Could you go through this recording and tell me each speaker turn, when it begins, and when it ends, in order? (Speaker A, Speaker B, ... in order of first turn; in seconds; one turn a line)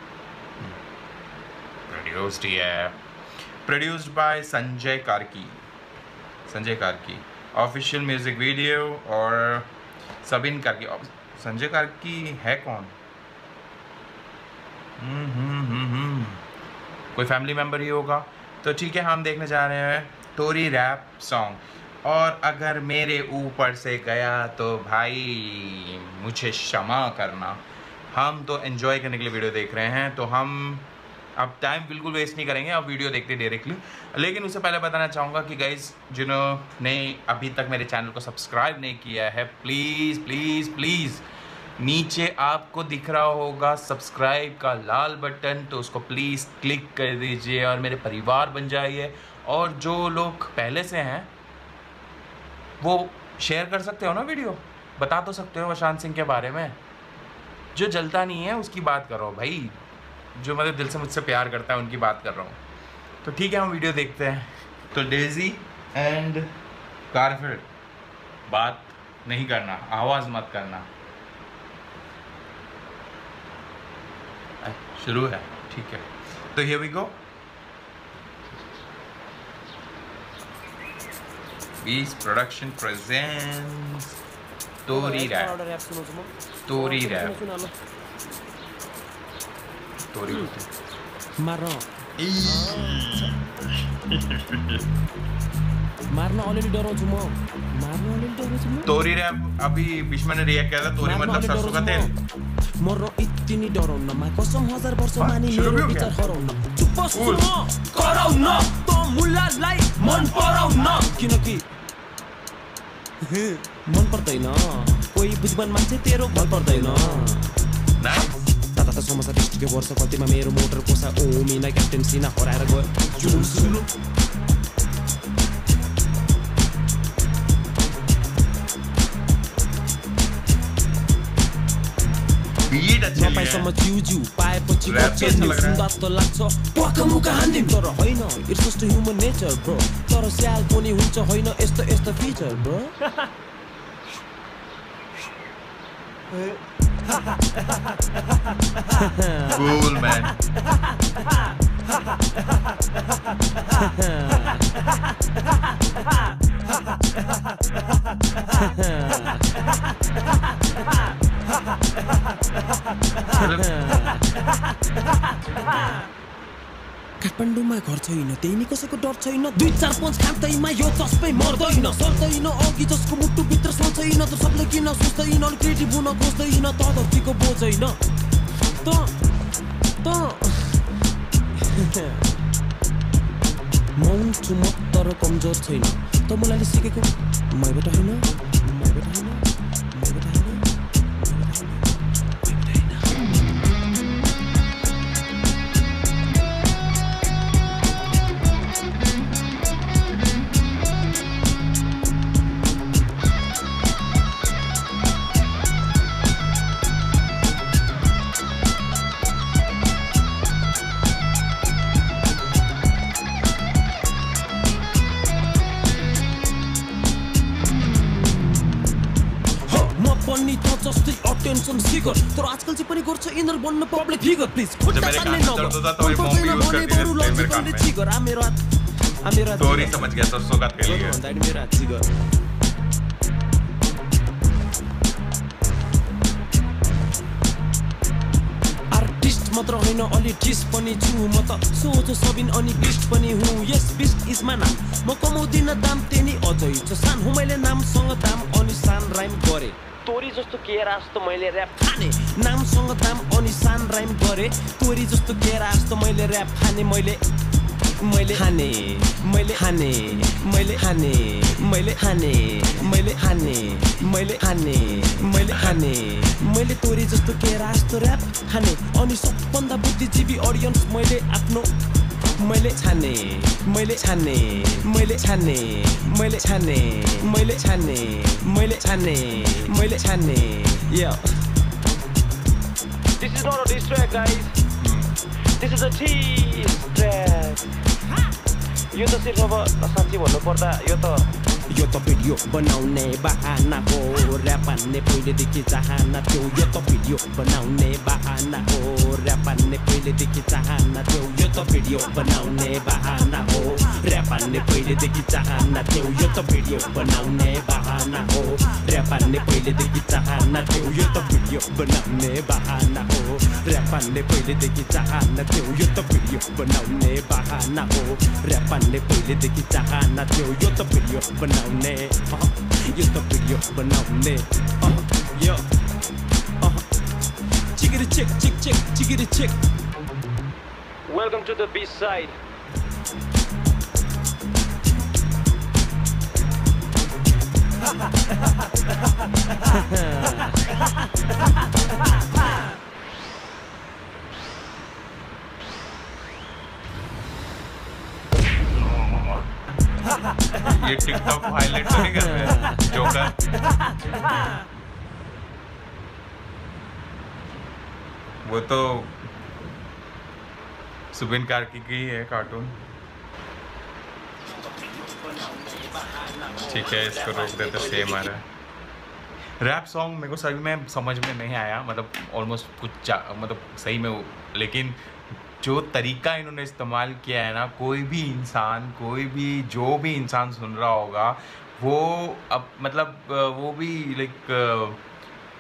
Speaker A: 1.9-3.0
Speaker A: 3.6-5.6
Speaker A: 6.5-9.7
Speaker A: 10.2-12.9
Speaker A: 15.0-16.4
Speaker A: 17.1-41.2
Speaker A: 41.8-51.3
Speaker A: 52.8-56.8
Speaker A: 57.8-59.8
Speaker A: 60.4-62.6
Speaker A: 63.2-66.5
Speaker A: 67.1-67.7
Speaker A: 68.5-70.9
Speaker A: 74.6-77.2
Speaker A: 81.8-84.1
Speaker A: 84.9-85.5
Speaker B: 84.9-87.8
Speaker A: 86.7-87.4
Speaker A: 90.1-90.7
Speaker B: 91.4-91.9
Speaker A: 92.2-94.8
Speaker B: 92.4-93.4
Speaker B: 96.1-98.9
Speaker A: 98.9-102.1
Speaker B: 101.0-102.1
Speaker B: 102.8-111.6
Speaker A: 105.2-106.2
Speaker A: 107.1-107.5
Speaker B: 113.2-117.5
Speaker A: 118.0-118.4
Speaker B: 118.7-123.8
Speaker A: 123.2-123.8
Speaker A: 132.7-133.7
Speaker B: 133.2-143.0
Speaker A: 134.8-135.9
Speaker B: 148.9-150.3
Speaker A: 149.4-150.4
Speaker B: 153.6-154.7
Speaker B: 158.4-159.7
Speaker B: 163.2-164.6
Speaker A: 163.3-163.7
Speaker B: 165.5-165.9
Speaker B: 167.2-178.0
Speaker B: 178.8-179.2
Speaker B: 180.0-180.9
Speaker B: 181.5-182.4
Speaker B: 183.9-193.2
Speaker B: 219.6-228.6
Speaker A: 224.8-227.9
Speaker B: 229.2-230.2
Speaker A: 229.6-231.2
Speaker B: 230.8-232.1
Speaker B: 238.9-257.2
Speaker B: 258.0-271.7
Speaker B: 272.4-281.4
Speaker B: 283.2-284.6
Speaker A: 284.8-285.1
Speaker B: 285.4-288.3
Speaker B: 288.9-325.7
Speaker B: 326.6-326.9
Speaker B: 327.6-329.6
Speaker B: 331.1-332.4
Speaker B: 339.6-340.7
Speaker A: 350.5-353.4
Speaker B: 352.0-352.9
Speaker A: 358.4-359.1
Speaker A: 361.1-362.8
Speaker B: 364.8-368.3
Speaker A: 366.6-368.4
Speaker A: 369.6-375.0
Speaker A: 375.6-385.0